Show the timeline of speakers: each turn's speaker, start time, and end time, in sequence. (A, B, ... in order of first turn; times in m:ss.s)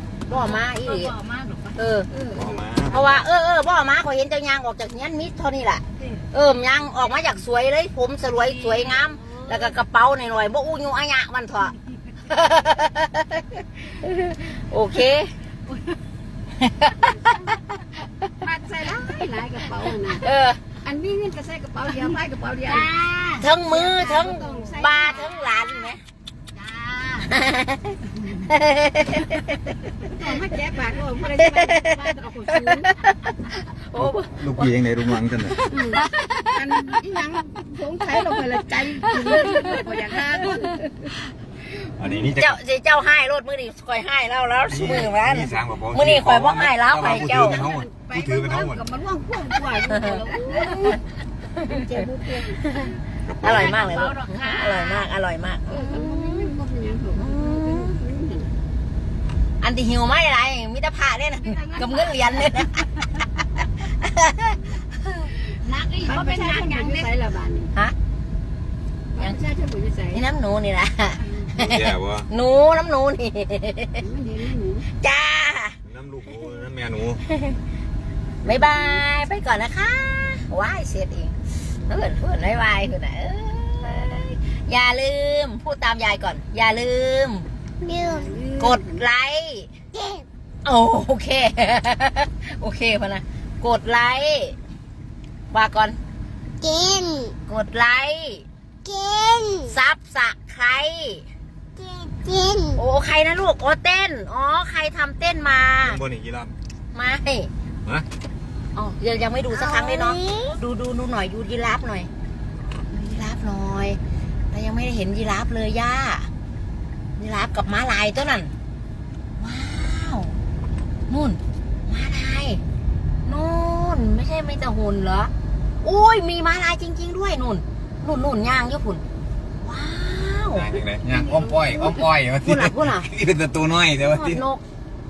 0:00.3-0:01.8 A
0:00.3-0:01.1 B
0:01.8-0:02.1 B
0:02.1-0:02.6 C
0:02.3-0:03.2 D
0:02.9-0:15.3 B
0:06.0-0:06.2 A
0:08.3-0:09.7 A
0:16.6-0:17.1 B
0:17.0-0:17.6 C
0:18.4-0:20.2 C
0:20.2-0:20.6 B
0:20.8-0:23.0 C
0:22.8-0:23.4 A
0:23.3-0:26.0 B
0:23.6-0:25.3 C
0:26.5-0:27.3 A
0:27.3-0:30.0 B
0:30.0-0:32.9 C
0:31.5-0:31.8 B
0:32.6-0:36.6 B
0:34.0-0:35.6 D
0:35.7-0:41.0 C
0:42.0-0:42.6 D
0:42.3-0:47.7 B
0:44.7-0:48.8 D
0:47.1-0:51.0 C
0:49.9-0:51.0 B
0:51.6-0:52.8 C
0:53.2-0:54.0 D
0:53.4-0:56.5 B
0:53.4-0:55.1 A
0:55.7-0:58.5 C
0:57.1-0:58.0 B
0:59.6-1:03.0 B
1:01.4-1:02.7 A
1:03.8-1:05.3 B
1:05.5-1:07.1 A
1:06.1-1:07.7 C
1:09.2-1:10.2 C
1:10.1-1:14.0 B
1:11.3-1:11.5 C
1:11.6-1:12.3 D
1:14.0-1:14.8 C
1:15.0-1:15.8 B
1:15.8-1:17.2 D
1:17.3-1:17.6 B
1:18.4-1:27.5 B
1:27.9-1:28.3 E
1:27.9-1:29.0 C
1:28.6-1:29.7 B
1:29.9-1:30.2 E
1:30.6-1:34.6 B
1:35.5-1:36.0 B
1:36.6-1:37.4 E
1:37.4-1:38.4 B
1:38.8-1:39.7 E
1:39.7-1:41.2 B
1:41.8-1:42.8 E
1:42.7-1:46.0 B
1:45.8-1:46.6 D
1:46.9-1:47.5 B
1:48.8-1:52.1 B
1:49.7-1:50.5 E
1:52.9-1:54.0 B
1:54.5-1:56.3 B
1:57.2-1:58.5 B
1:59.4-2:00.4 B
2:01.1-2:02.6 B
2:03.2-2:05.3 B
2:05.8-2:09.0 B
2:09.6-2:10.7 B
2:10.5-2:14.4 D
2:11.3-2:12.0 C
2:12.4-2:13.1 B
2:14.0-2:14.6 B